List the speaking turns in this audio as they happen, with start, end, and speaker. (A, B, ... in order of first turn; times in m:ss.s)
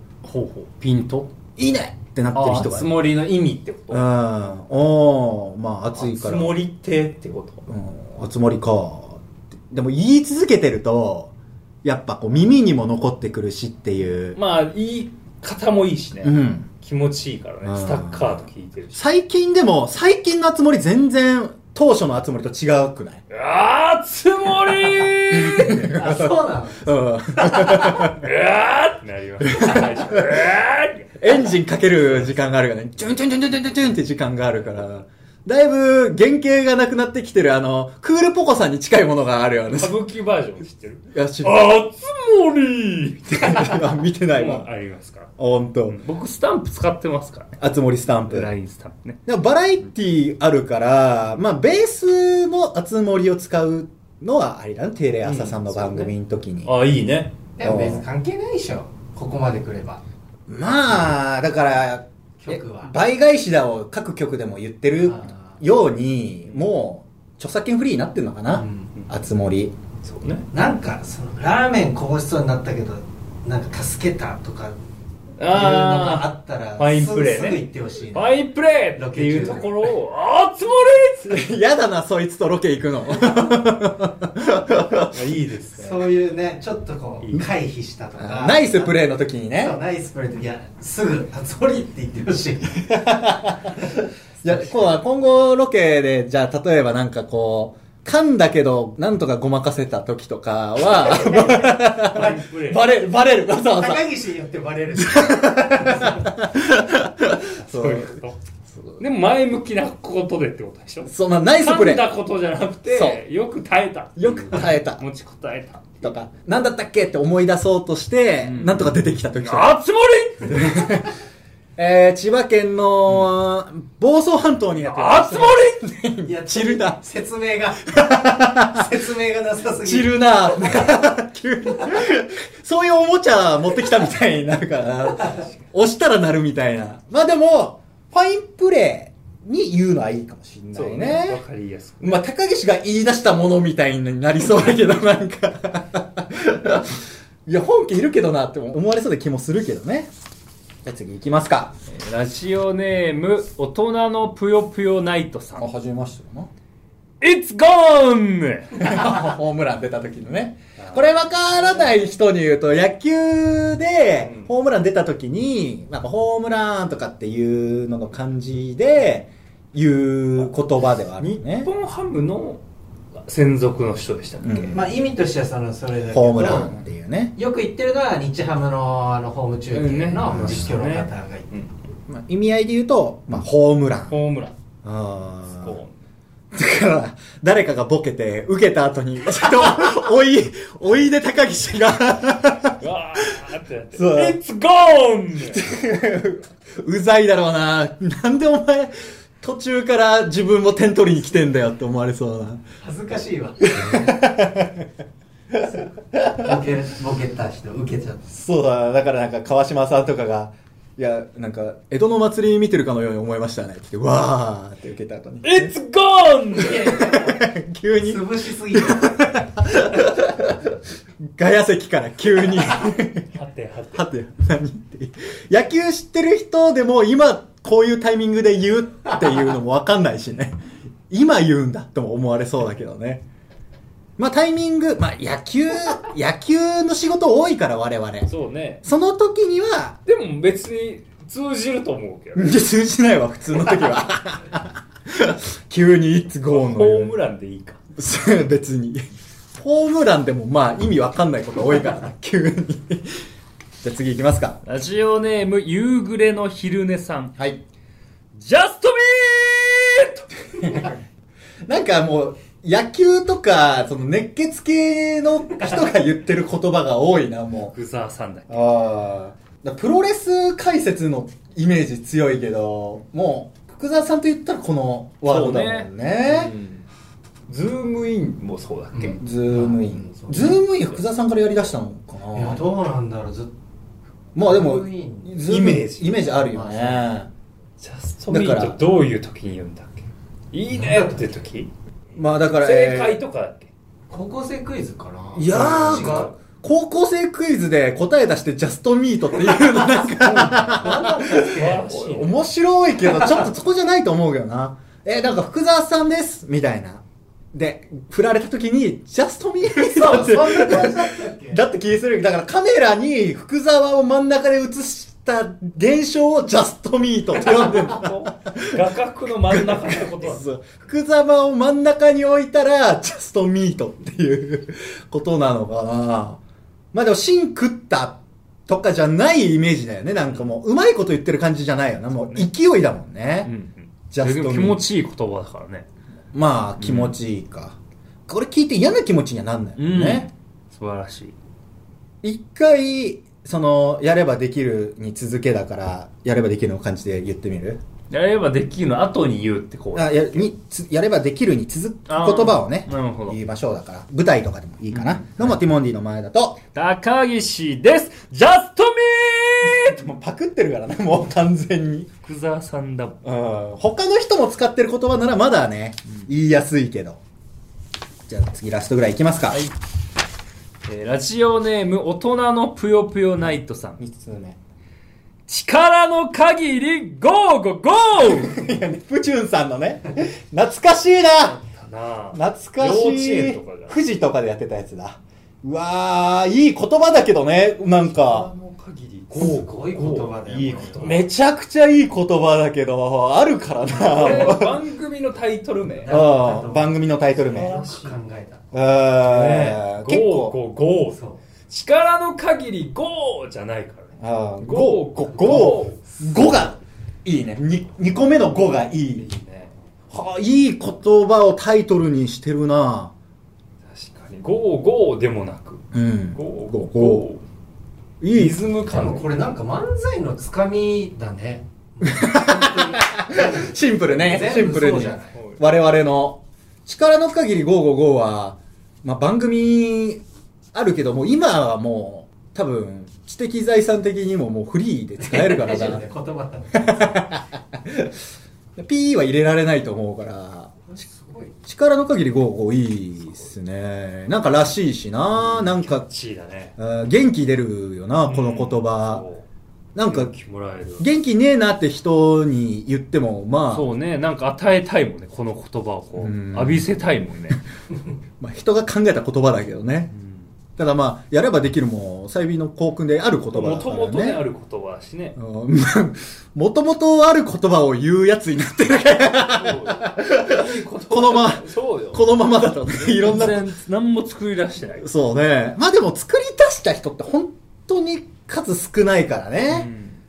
0:00.2-0:01.3 A
0:01.6-0:03.0 B
0:02.3-0:04.1 A
0:03.9-0:06.6 B
0:05.9-0:07.7 A
0:07.7-0:14.4 B
0:14.4-0:19.0 A
0:16.2-0:16.7 B
0:17.6-0:18.4 B
0:19.0-0:23.2 B
0:23.3-0:25.9 A
0:25.3-0:28.2 B
0:25.9-0:28.0 C
0:28.0-0:31.2 A
0:29.4-0:30.3 B
0:31.2-0:40.0 B
0:39.7-0:45.3 A
0:41.1-0:41.8 B
0:43.3-0:44.7 B
0:45.4-0:46.0 B
0:45.9-0:47.6 A
0:47.6-0:48.5 B
0:48.2-0:49.2 A
0:49.3-0:56.7 B
0:55.2-0:56.1 A
0:56.6-0:57.4 A
0:57.6-1:00.0 C
0:57.6-0:58.0 B
1:00.5-1:09.7 B
1:02.4-1:02.9 C
1:05.0-1:05.4 C
1:08.5-1:08.9 C
1:10.0-1:10.4 A
1:10.5-1:14.8 C
1:15.4-1:17.6 A
1:15.5-1:18.4 C
1:18.1-1:21.5 A
1:19.0-1:19.9 C
1:21.2-1:25.2 B
1:25.1-1:26.0 A
1:25.8-1:28.9 C
1:27.2-1:27.5 A
1:28.2-1:29.8 B
1:29.6-1:32.9 C
1:32.9-1:33.9 B
1:34.4-1:44.1 B
1:41.0-1:42.4 C
1:41.3-1:42.8 A
1:43.6-1:46.3 C
1:45.0-1:48.2 B
1:47.6-1:48.4 A
1:48.7-1:49.0 B
1:49.0-1:56.2 A
1:51.1-1:52.1 B
1:52.9-1:53.2 B
1:54.2-1:55.0 B
1:56.0-1:59.8 B
1:58.4-2:00.9 A
2:00.5-2:01.1 B
2:01.8-2:07.0 B
2:04.9-2:05.9 A
2:06.2-2:10.9 C
2:07.9-2:08.8 B
2:09.8-2:21.4 B
2:20.7-2:22.2 A
2:22.0-2:30.1 B
2:30.8-2:31.8 B
2:31.9-2:35.7 A
2:35.6-2:36.5 B
2:37.2-2:38.8 A
2:38.8-2:51.7 B
2:40.8-2:41.0 A
2:44.2-2:44.5 A
2:51.2-2:52.6 A
2:53.2-2:54.8 A
2:54.4-2:54.8 B
2:54.7-2:56.8 C
2:56.1-2:57.4 B
2:57.4-3:01.5 C
2:59.7-3:01.7 A
3:00.3-3:00.7 B
3:02.1-3:04.2 B
3:04.1-3:04.6 A
3:04.8-3:05.8 B
3:05.4-3:06.0 A
3:06.5-3:12.8 B
3:12.8-3:15.6 A
3:14.0-3:14.4 B
3:15.4-3:22.6 B
3:22.8-3:24.1 C
3:23.6-3:24.9 B
3:25.5-3:26.3 B
3:26.1-3:28.3 C
3:28.3-3:35.7 B
3:35.4-3:37.0 A
3:36.6-3:37.4 C
3:36.9-3:40.8 B
3:37.9-3:39.7 C
3:41.3-3:43.4 B
3:43.3-3:44.0 A
3:43.9-3:50.6 B
3:51.1-3:53.2 B
3:54.2-3:58.3 B
3:58.3-3:58.8 A
3:58.8-4:00.0 B
4:00.1-4:02.5 A
4:02.4-4:07.2 B
4:06.5-4:07.8 A
4:08.0-4:09.0 B
4:09.6-4:13.2 B
4:13.8-4:14.6 B
4:14.6-4:17.3 A
4:17.4-4:17.6 B
4:18.4-4:20.9 A
4:20.6-4:20.9 B
4:21.6-4:27.8 B
4:27.7-4:28.8 A
4:28.5-4:36.5 B
4:35.2-4:36.8 A
4:37.5-4:39.2 A
4:38.9-4:40.6 C
4:39.2-4:42.6 B
4:42.3-4:43.6 C
4:44.4-4:47.3 B
4:44.4-4:45.4 C
4:45.5-4:46.2 A
4:46.1-4:47.0 C
4:47.8-4:51.7 A
4:48.3-4:48.8 B
4:50.7-4:51.3 C
4:52.2-4:53.2 B
4:52.5-4:53.7 A
4:54.1-4:56.3 C
4:55.4-5:18.8 B
4:55.5-4:56.4 A
5:00.3-5:01.9 C
5:00.4-5:00.8 A
5:01.5-5:02.4 A
5:03.0-5:03.3 C
5:09.8-5:11.6 C
5:17.4-5:20.4 A
5:19.5-5:26.4 B
5:26.9-5:33.5 B
5:33.4-5:35.9 A
5:34.1-5:34.8 B
5:36.3-5:40.3 B
5:36.8-5:37.2 A
5:39.8-5:41.4 A
5:42.2-5:47.8 B
5:48.1-5:50.5 A
5:50.0-5:56.6 B
5:52.1-5:53.4 A
5:54.9-5:55.6 A
5:56.7-6:00.0 A
5:59.6-6:02.1 B
6:02.2-6:03.2 A
6:03.2-6:07.2 B
6:08.3-6:09.7 B
6:10.8-6:14.0 A
6:14.0-6:14.6 B
6:15.5-6:18.6 A
6:18.2-6:21.6 B
6:21.4-6:24.0 A
6:22.3-6:28.5 B
6:28.0-6:31.2 A
6:29.3-6:31.2 C
6:31.0-6:34.8 B
6:33.9-6:36.2 A
6:36.0-6:38.6 C
6:36.1-6:37.8 B
6:37.4-6:38.2 A
6:38.7-6:40.6 B
6:39.1-6:46.1 A
6:41.1-6:41.4 C
6:44.2-6:49.3 B
6:48.8-6:49.7 A
6:50.1-6:53.2 B
6:53.9-6:55.8 A
6:55.9-6:57.3 B
6:56.4-6:57.4 A
6:58.2-6:58.6 B
6:58.3-6:59.3 A
6:58.9-7:05.4 C
7:02.0-7:10.2 B
7:05.4-7:05.6 A
7:10.7-7:16.1 B
7:15.2-7:17.2 C
7:16.7-7:18.1 B
7:18.8-7:20.8 B
7:20.9-7:21.5 C
7:21.6-7:26.1 B
7:25.4-7:26.8 A
7:26.8-7:29.2 B
7:28.2-7:29.5 A
7:30.0-7:30.4 B
7:30.0-7:31.1 A
7:31.0-7:33.9 B
7:33.7-7:37.6 A
7:36.2-7:36.9 B
7:38.4-7:40.1 B
7:40.2-7:40.4 A
7:40.8-7:44.4 B
7:43.5-7:45.4 A
7:45.4-7:53.7 B
7:49.5-7:52.2 A
7:53.0-7:55.1 A
7:55.0-7:59.9 B
7:59.7-8:00.2 A